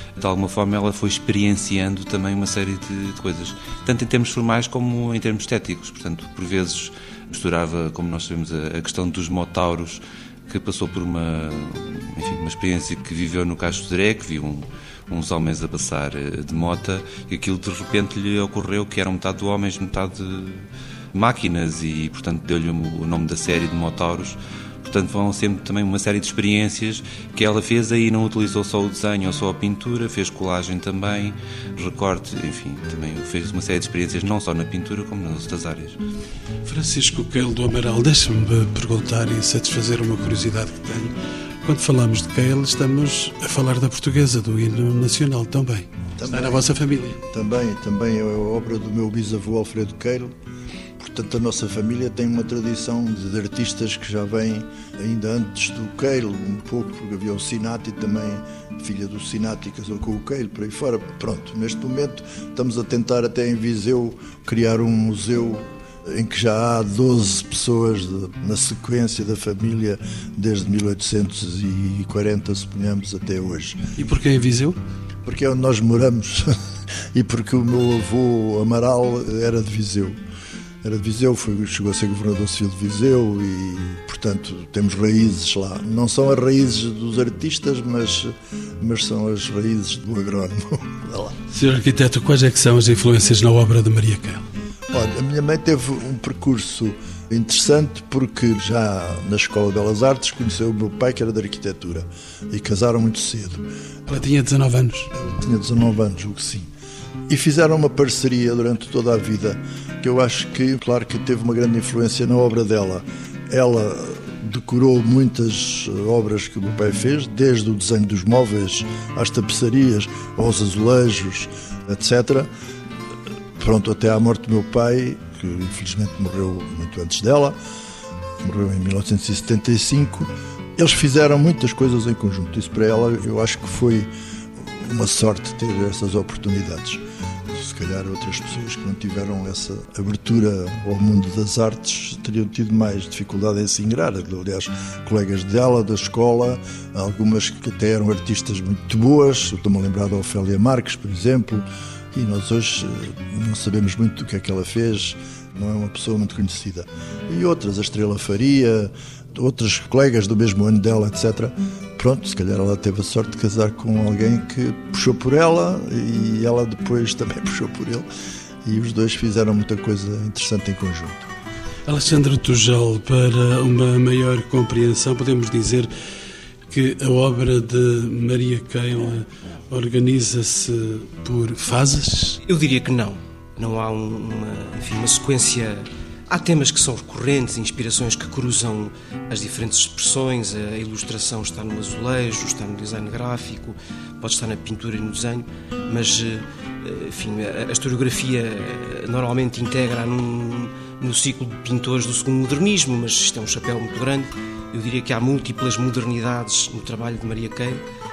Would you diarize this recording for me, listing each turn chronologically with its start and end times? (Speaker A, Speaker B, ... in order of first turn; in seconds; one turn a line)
Speaker A: 0.2-36.0
Speaker B: 36.6-47.2
Speaker C: 46.2-46.7
Speaker C: 47.3-50.3
Speaker C: 51.0-73.8
Speaker B: 74.0-74.8
Speaker C: 75.2-76.5
Speaker C: 77.1-80.2
Speaker C: 80.8-91.4
Speaker B: 91.5-94.5
Speaker C: 94.9-103.7
Speaker B: 104.1-105.1
Speaker C: 105.2-106.7
Speaker C: 107.3-122.5
Speaker C: 123.6-127.6
Speaker C: 128.4-168.1
Speaker C: 168.7-171.2
Speaker B: 171.9-175.9
Speaker B: 176.7-182.4
Speaker D: 182.5-207.8